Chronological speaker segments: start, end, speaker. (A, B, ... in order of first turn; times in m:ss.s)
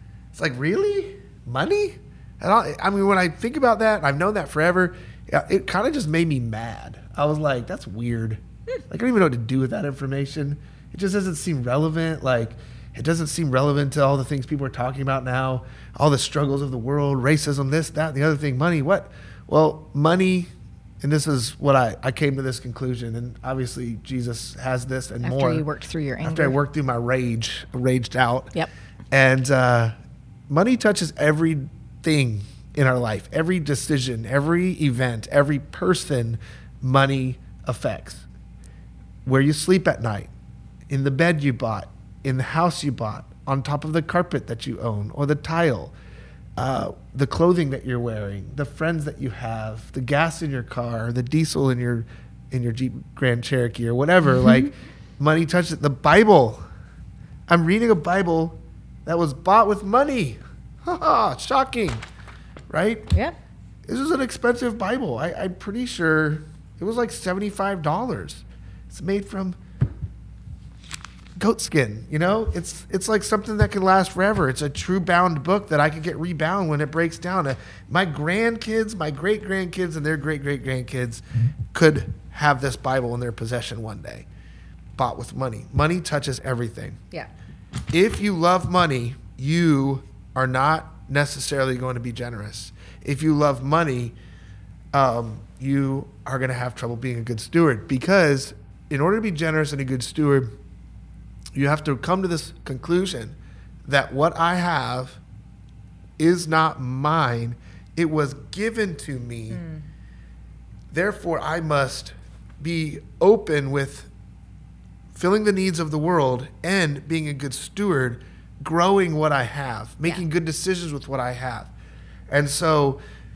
0:00.3-0:25.6 A
0:25.2-0:26.6 B
0:26.2-0:28.5 A
0:29.1-0:30.0 A
0:30.5-0:38.3 A
0:39.2-0:40.3 A
0:40.9-0:45.9 A
0:46.6-0:56.6 A
0:54.2-0:54.7 B
0:57.5-1:02.0 A
1:02.7-1:03.1 A
1:03.9-1:09.6 A
1:11.4-1:24.3 A
1:25.0-1:27.0 A
1:27.9-1:34.2 A
1:34.9-1:40.5 A
1:41.6-1:45.2 A
1:46.2-1:49.6 A
1:49.5-1:49.8 B
1:50.9-1:54.1 A
1:55.1-2:01.7 A
2:02.3-2:03.0 A